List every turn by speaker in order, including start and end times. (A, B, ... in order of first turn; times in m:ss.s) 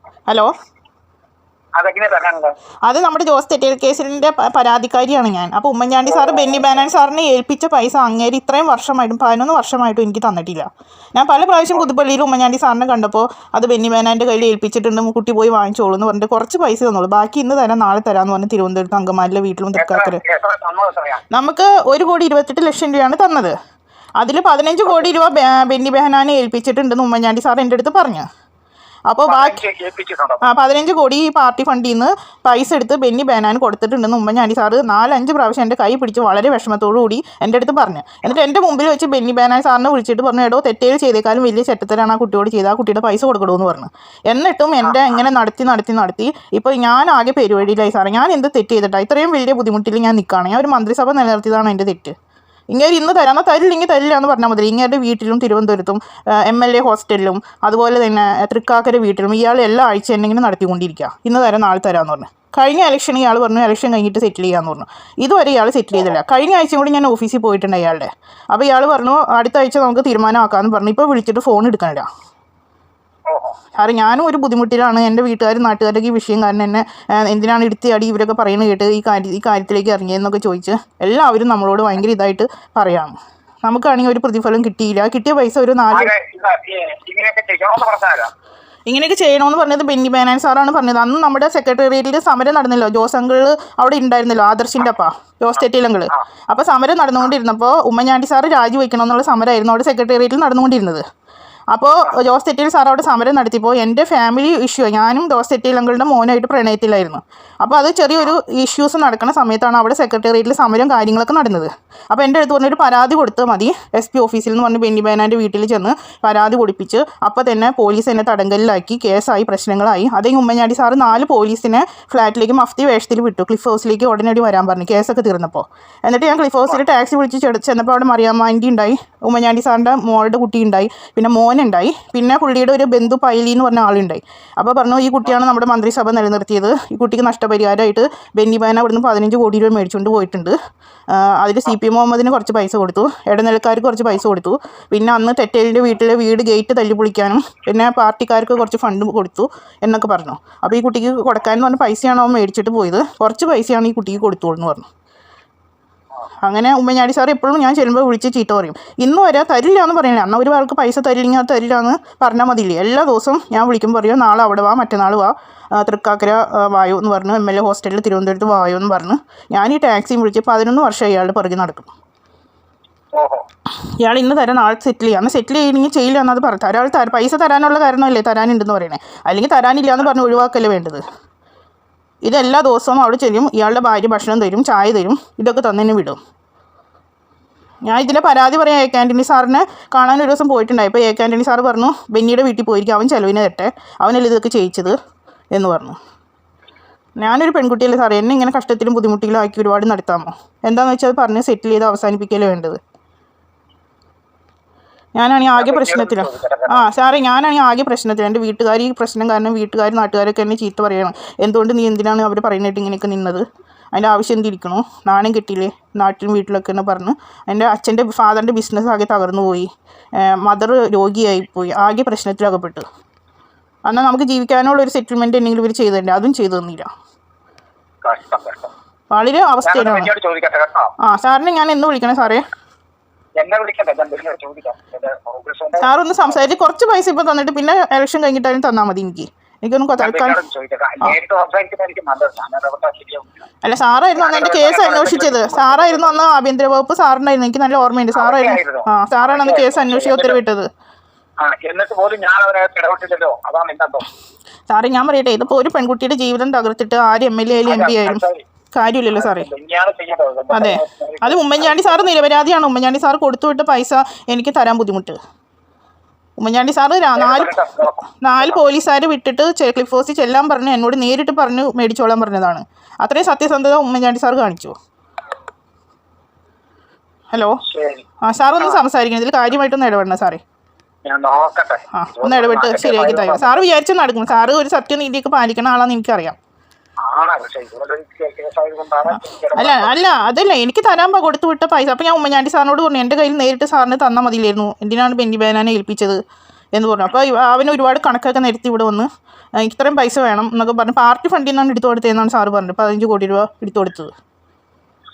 0:01.8-0:02.5 A
0:02.8-0:20.2 B
0:06.0-0:06.6 A
0:19.7-0:21.2 A
0:21.3-0:23.5 B
0:24.2-0:28.2 B
0:29.1-0:29.6 B
0:29.2-0:30.5 A
0:30.4-0:52.1 B
0:44.8-0:45.2 A
0:52.7-1:12.1 B
1:13.3-1:13.6 A
1:13.8-1:26.1 B
1:25.9-1:28.3 A
1:28.8-1:41.0 B
1:41.7-2:20.5 B
2:21.1-2:34.8 B
2:36.4-2:51.9 B
2:53.1-2:53.4 A
2:54.0-3:01.0 B
3:02.2-3:06.2 B
3:07.8-3:14.9 B
3:15.5-3:16.0 B
3:17.2-3:22.8 B
3:25.2-3:42.8 B
3:25.6-3:26.8 A
3:43.8-3:46.9 B
3:48.0-3:48.7 A
3:49.1-3:50.1 B
3:49.6-3:50.9 A
3:51.0-3:52.4 B
3:53.4-3:56.4 A
3:55.8-4:00.4 B
4:00.0-4:03.4 A
4:03.6-4:10.7 B
4:04.2-4:06.2 A
4:08.1-4:10.4 A
4:11.4-4:14.1 A
4:14.7-4:18.2 B
4:17.6-4:18.4 A
4:18.7-4:19.5 B
4:19.1-4:22.1 A
4:20.5-4:25.2 B
4:26.4-4:27.5 B
4:27.1-4:28.5 A
4:28.2-4:34.7 B
4:37.3-4:37.6 B
4:37.6-4:38.0 A
4:38.2-4:40.4 B
4:41.0-4:43.6 A
4:41.9-4:46.4 B
4:47.0-4:50.0 A
4:49.5-4:56.2 B
4:56.8-4:59.1 B
4:59.6-5:04.1 B